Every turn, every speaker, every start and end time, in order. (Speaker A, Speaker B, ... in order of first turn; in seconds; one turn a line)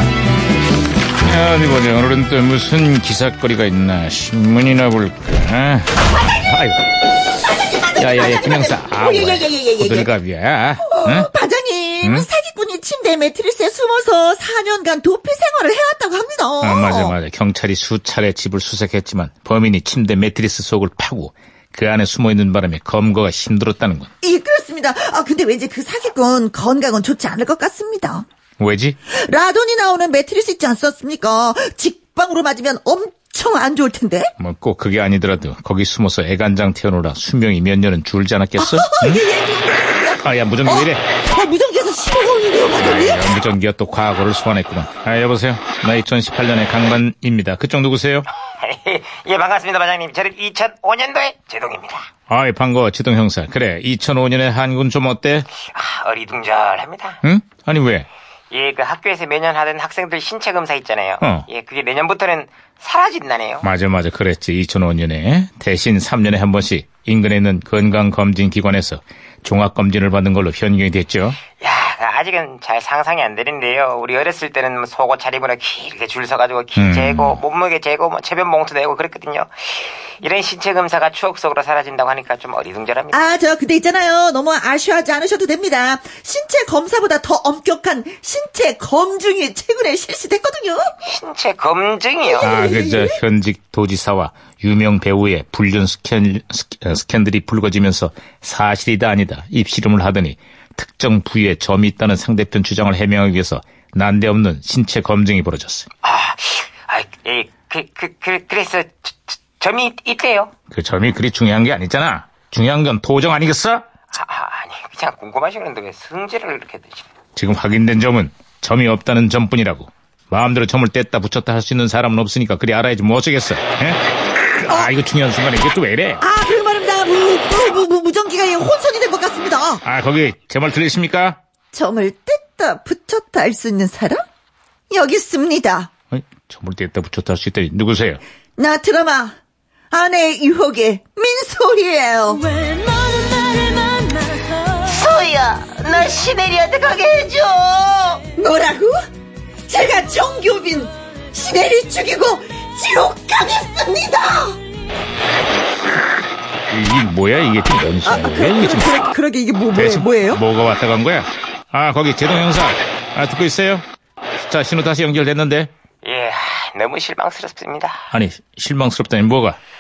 Speaker A: 1.2-6.8
Speaker B: 7.4-10.1
Speaker A: 8.0-11.3
Speaker B: 10.8-17.1
Speaker A: 12.0-12.3
Speaker A: 16.6-24.1
Speaker B: 24.2-28.2
Speaker A: 28.6-29.0
Speaker B: 29.1-34.3
Speaker A: 34.4-39.2
Speaker B: 38.6-43.4
Speaker A: 40.2-41.0
Speaker A: 42.8-48.3
Speaker C: 48.4-52.1
Speaker A: 52.3-55.5
Speaker C: 55.6-57.2
Speaker A: 57.2-58.1
Speaker C: 58.5-63.7
Speaker A: 63.6-71.4
Speaker C: 71.6-83.2
Speaker A: 76.8-77.4
Speaker B: 83.1-90.9
Speaker C: 91.0-92.5
Speaker B: 92.2-93.2
Speaker A: 92.4-105.9
Speaker C: 106.0-110.5
Speaker A: 110.7-113.8
Speaker C: 114.1-117.1
Speaker A: 117.3-126.2
Speaker B: 126.2-129.8
Speaker A: 129.8-131.4
Speaker B: 131.7-134.2
Speaker B: 134.9-135.9
Speaker A: 136.1-138.2
Speaker B: 138.6-139.3
Speaker B: 139.9-142.6
Speaker B: 144.8-148.9
Speaker B: 149.7-154.6
Speaker A: 156.7-159.0
Speaker B: 158.0-160.4
Speaker A: 159.7-163.8
Speaker A: 164.4-165.7
Speaker C: 166.0-168.0
Speaker A: 168.1-169.6